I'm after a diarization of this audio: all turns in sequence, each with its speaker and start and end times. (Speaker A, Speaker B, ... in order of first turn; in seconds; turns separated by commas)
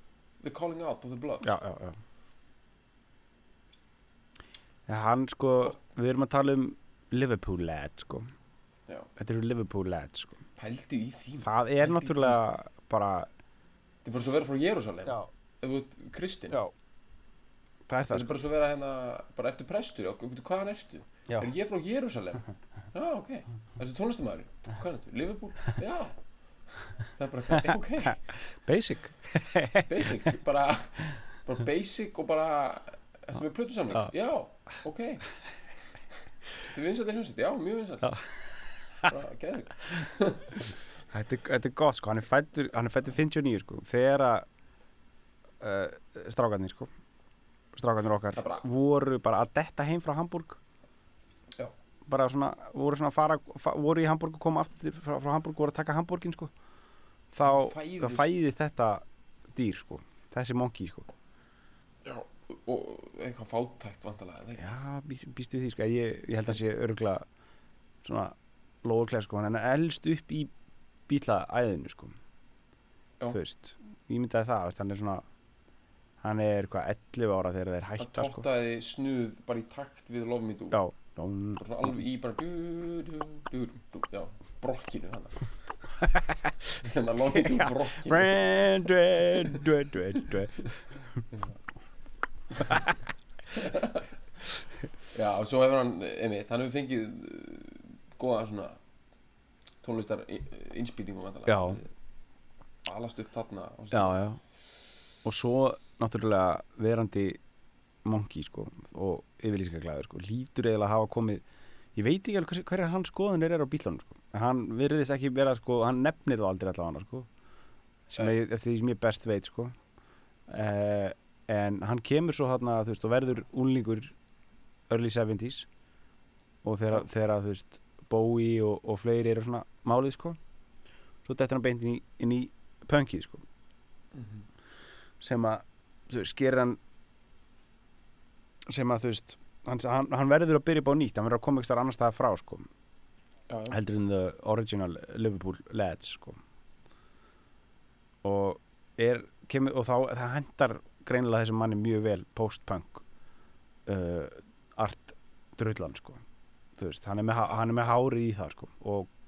Speaker A: 0.4-1.6, Speaker B: 1.4-2.0, Speaker B: 4.9-8.3, Speaker B: 9.2-10.4, Speaker A: 10.6-12.4, Speaker B: 11.4-13.3, Speaker A: 14.0-16.6, Speaker B: 17.9-18.3, Speaker A: 18.1-26.1, Speaker A: 27.2-28.2, Speaker B: 28.6-30.2, Speaker A: 29.9-35.2, Speaker A: 36.6-38.2, Speaker B: 38.0-39.1, Speaker A: 39.1-40.7, Speaker B: 41.1-44.5, Speaker B: 45.6-46.9, Speaker B: 47.7-50.6, Speaker A: 48.4-48.7, Speaker B: 52.1-56.5, Speaker B: 57.3-61.1, Speaker A: 57.4-58.5, Speaker A: 62.0-64.7, Speaker B: 64.6-67.3, Speaker B: 68.0-70.5, Speaker B: 71.1-72.2, Speaker B: 73.3-75.2, Speaker B: 76.2-78.5, Speaker A: 78.0-80.8, Speaker B: 80.7-81.9, Speaker A: 81.6-85.5, Speaker B: 86.0-86.5, Speaker A: 86.8-88.4, Speaker B: 87.3-90.7, Speaker A: 89.3-89.6, Speaker A: 90.2-90.7, Speaker A: 92.5-92.8, Speaker A: 93.5-94.1, Speaker A: 95.1-98.8, Speaker A: 99.8-101.9, Speaker B: 101.5-101.8, Speaker A: 102.8-104.2, Speaker B: 103.9-104.4, Speaker B: 105.2-107.4, Speaker B: 108.0-111.4, Speaker B: 112.0-117.3, Speaker B: 118.1-119.8, Speaker B: 120.5-124.1, Speaker B: 124.9-125.7, Speaker B: 126.6-130.4, Speaker B: 131.2-133.4, Speaker A: 134.1-134.5, Speaker B: 135.2-136.8, Speaker B: 138.7-142.7, Speaker A: 143.5-143.8, Speaker B: 143.7-146.4, Speaker B: 148.2-153.0, Speaker B: 153.9-156.2, Speaker B: 156.8-159.1